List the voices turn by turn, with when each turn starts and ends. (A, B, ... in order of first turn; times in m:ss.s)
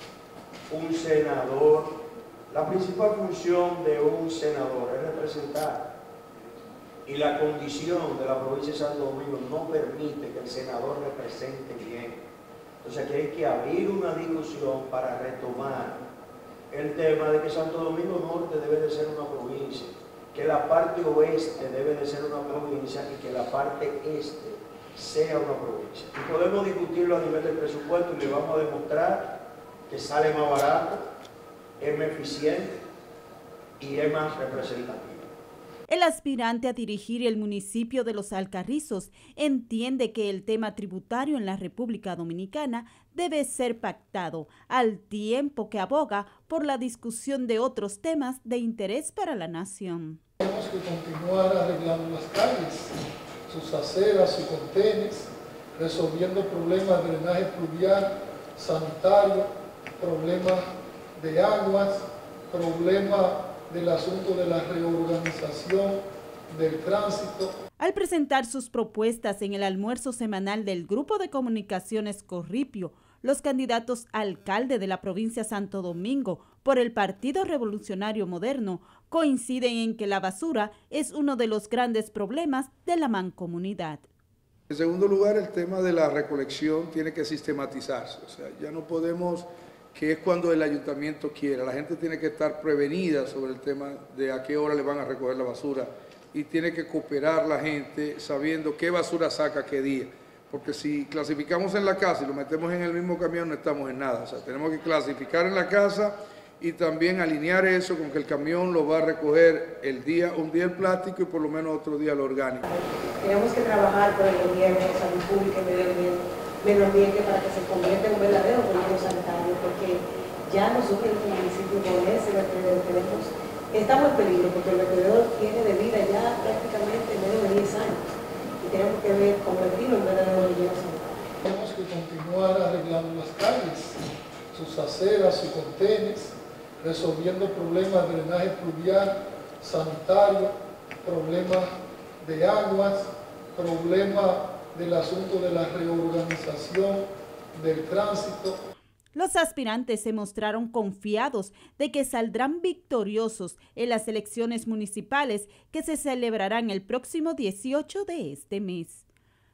0:00.7-0:05.9 A
0:07.0-0:12.2 A
0:12.8-0:16.0 A
0:16.7-0:31.0 A
0:31.8-0:32.8 A
0:33.8-0:35.3 A
0:35.9-0:50.2 B
0:50.4-0:53.0 C
0:53.5-1:07.6 C
1:07.8-1:24.1 B
1:24.7-1:52.6 D
1:52.6-2:11.0 E
2:11.4-2:28.6 C
2:29.1-2:39.0 B